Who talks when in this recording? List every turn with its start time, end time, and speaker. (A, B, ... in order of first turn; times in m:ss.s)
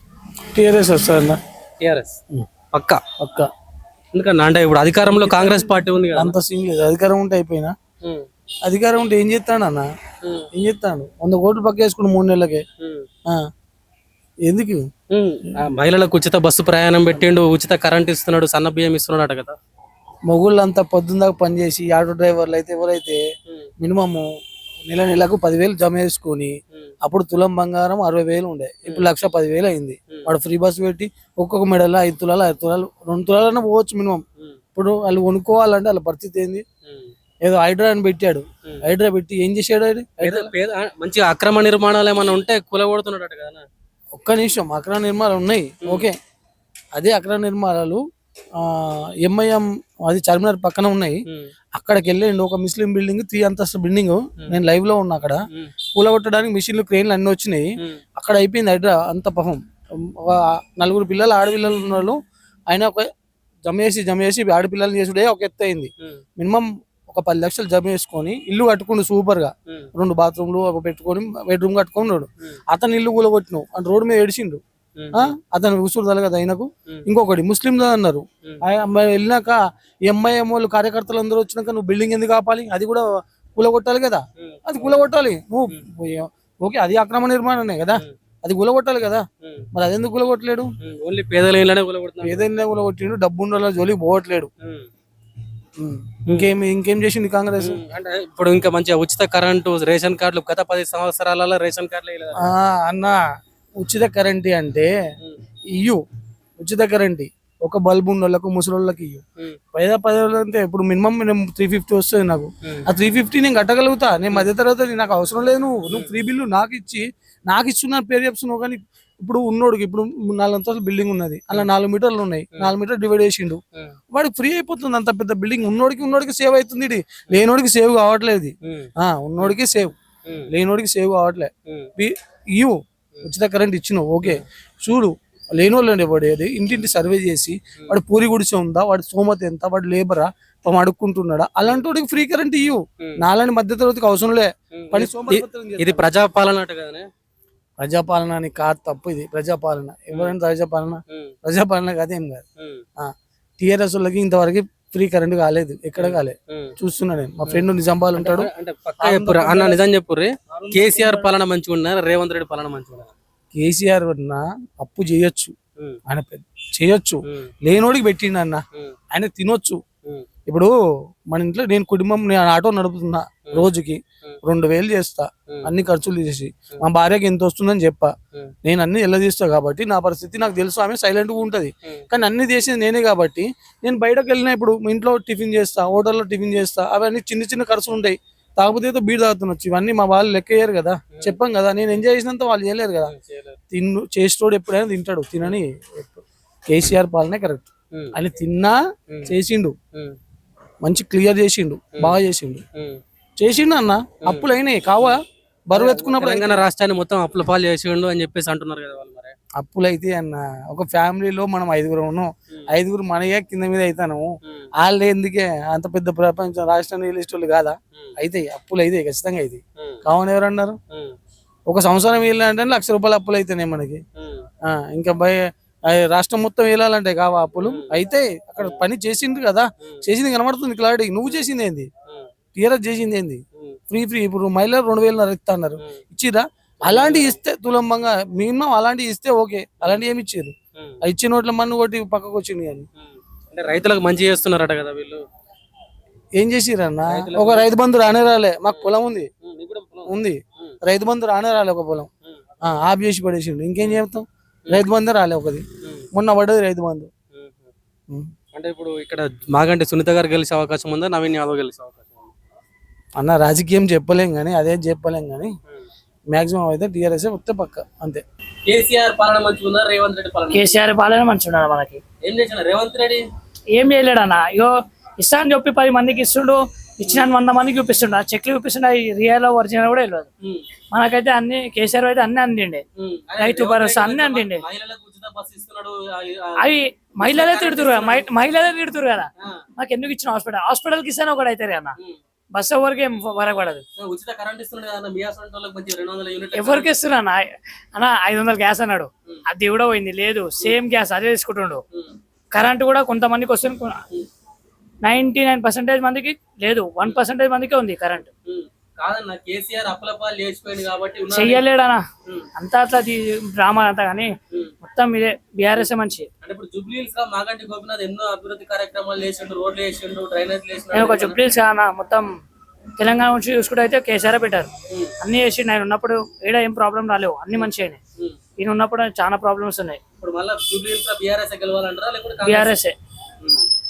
0:00.5-0:01.4 A
0:01.8-0:02.2 B
0:02.7-0:03.0 B
0:03.2-0:03.5 A
0:04.1-0:06.4 B
0:05.1-0:07.8 A
0:08.6-0:09.9 A
0:10.5-0:12.6 A
0:12.8-0:13.1 B
0:14.4-0:14.9 A
0:15.1-0:19.6 B
0:20.3-0:23.2 A
0:23.8-0:24.3 A
0:24.9-0:36.6 A
0:28.8-0:29.1 B
0:36.8-0:37.1 B
0:37.4-0:40.5 A
0:40.2-0:43.7 B
0:44.1-0:46.2 A
0:45.8-0:46.1 B
0:46.9-0:48.0 A
0:48.6-0:51.2 A
0:51.7-0:55.4 A
0:55.9-1:02.2 A
1:02.7-1:03.1 A
1:03.6-1:14.6 A
1:15.0-1:15.3 B
1:15.1-1:30.7 A
1:24.4-1:25.0 B
1:30.8-1:32.5 B
1:32.2-1:34.5 A
1:34.6-1:34.9 B
1:35.8-1:37.8 A
1:37.6-1:42.5 B
1:42.4-1:43.2 A
1:43.8-1:44.9 A
1:45.7-1:46.0 A
1:46.6-2:10.0 A
1:55.9-1:56.2 B
2:08.6-2:09.6 B
2:10.5-2:26.1 A
2:16.7-2:16.9 B
2:24.7-2:27.1 B
2:27.8-2:32.4 A
2:32.6-2:32.8 B
2:33.0-2:39.8 A
2:36.0-2:36.7 B
2:37.5-2:43.1 B
2:40.5-2:41.3 A
2:43.5-2:45.6 A
2:46.1-2:49.8 A
2:50.5-2:50.8 A
2:51.3-3:13.1 A
3:11.1-3:11.4 B
3:13.0-3:13.6 B
3:13.7-3:19.8 A
3:19.1-3:19.3 B
3:20.8-3:22.6 A
3:22.7-3:23.0 B
3:23.4-3:26.6 A
3:24.2-3:25.2 B
3:25.7-3:29.3 B
3:29.6-3:34.3 A
3:34.8-3:40.8 A
3:39.8-3:40.0 B
3:40.9-3:41.2 B
3:41.7-3:44.0 A
3:44.2-3:44.5 B
3:44.6-3:51.9 A
3:47.6-3:48.0 B
3:48.6-3:48.8 B
3:52.6-4:02.9 A
3:56.8-3:57.4 B
4:03.0-4:05.2 B
4:06.4-4:09.3 A
4:07.1-4:07.7 B
4:09.4-4:10.8 B
4:10.1-4:12.1 A
4:12.6-4:17.1 A
4:13.8-4:14.0 B
4:17.3-4:17.7 B
4:18.5-4:22.3 B
4:23.2-4:25.6 A
4:26.3-4:28.2 A
4:28.7-4:30.6 B
4:30.5-4:32.0 C
4:32.2-4:33.2 B
4:33.7-4:40.3 C
4:40.9-4:42.8 C
4:43.0-4:46.6 B
4:43.4-4:44.6 C
4:46.6-4:51.9 C
4:47.2-4:48.3 B
4:52.5-4:53.8 C
4:54.0-4:56.9 B
4:56.5-5:01.8 C
5:02.5-5:04.0 C
5:05.0-5:08.3 C
5:08.5-5:11.6 B
5:11.3-5:12.0 C
5:12.6-5:14.3 C
5:14.9-5:16.3 C
5:16.4-5:21.4 B
5:20.9-5:22.3 C
5:23.0-5:24.7 C
5:25.2-5:28.0 C
5:28.6-5:30.0 C
5:30.2-5:32.8 B
5:32.4-5:32.9 C